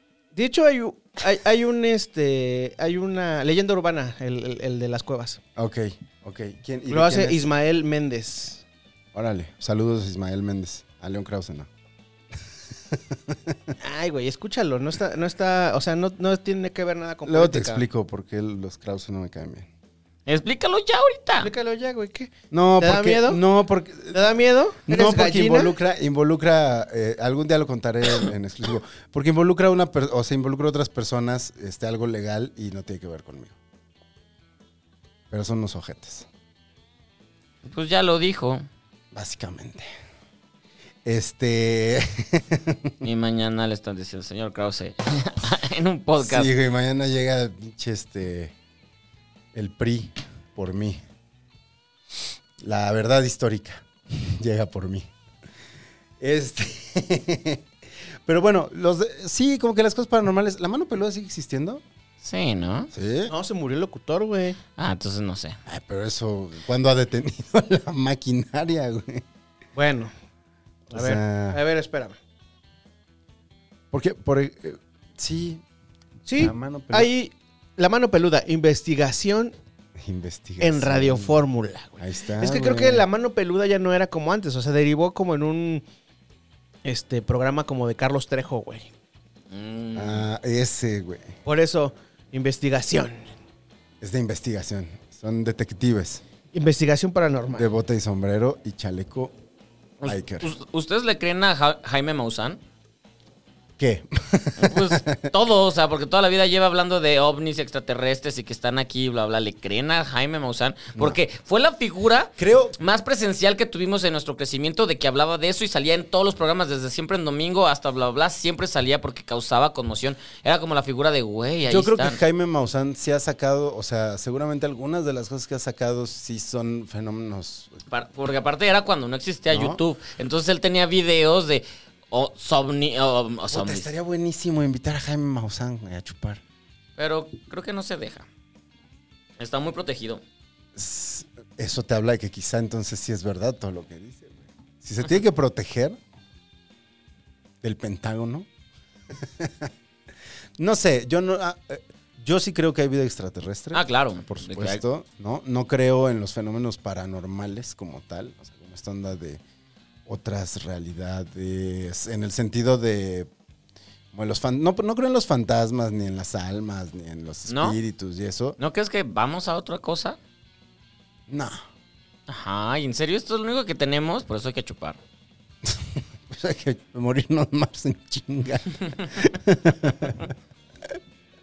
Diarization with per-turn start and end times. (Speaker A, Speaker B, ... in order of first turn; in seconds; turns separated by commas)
Speaker A: 0.3-5.4, Speaker B: 5.5-7.5, Speaker A: 6.9-8.6, Speaker B: 9.1-11.7, Speaker B: 12.9-13.7, Speaker A: 13.8-17.8, Speaker B: 17.2-19.7, Speaker C: 20.3-21.5, Speaker A: 21.4-23.4, Speaker B: 22.5-24.2, Speaker A: 24.1-25.7, Speaker B: 24.9-33.5, Speaker B: 35.3-36.3, Speaker C: 37.6-38.7, Speaker B: 39.1-39.9, Speaker B: 41.0-43.0, Speaker C: 43.0-46.5, Speaker B: 46.2-48.5, Speaker B: 49.5-51.0, Speaker B: 52.6-55.1, Speaker B: 56.2-57.6, Speaker B: 58.2-61.8, Speaker C: 62.2-62.9, Speaker B: 62.9-63.3, Speaker A: 63.3-64.6, Speaker C: 64.8-65.6, Speaker B: 65.7-69.2, Speaker A: 69.8-70.1, Speaker B: 70.9-71.6, Speaker A: 70.9-72.2, Speaker B: 73.9-75.6, Speaker A: 76.2-79.5, Speaker B: 76.4-77.1, Speaker B: 80.0-81.4, Speaker A: 80.6-85.8, Speaker B: 82.0-83.0, Speaker A: 86.8-88.9, Speaker C: 89.5-90.2, Speaker B: 89.9-91.3, Speaker A: 91.4-93.3, Speaker B: 94.0-96.2, Speaker A: 96.5-97.7, Speaker B: 97.5-99.3, Speaker C: 100.0-102.6, Speaker B: 100.0-100.5, Speaker B: 103.8-105.3, Speaker C: 104.6-122.2, Speaker B: 112.4-112.8, Speaker B: 121.7-127.8, Speaker C: 127.9-133.9, Speaker B: 129.5-129.8, Speaker B: 133.5-136.4, Speaker C: 137.0-138.3, Speaker C: 139.4-140.2, Speaker B: 140.7-146.0, Speaker B: 147.6-148.5, Speaker B: 149.2-149.7, Speaker B: 150.6-159.4, Speaker C: 153.7-154.8, Speaker B: 160.1-163.3, Speaker B: 164.1-168.6, Speaker C: 167.5-167.8, Speaker C: 168.6-170.2, Speaker B: 171.3-171.6, Speaker C: 172.3-175.0, Speaker B: 175.6-180.3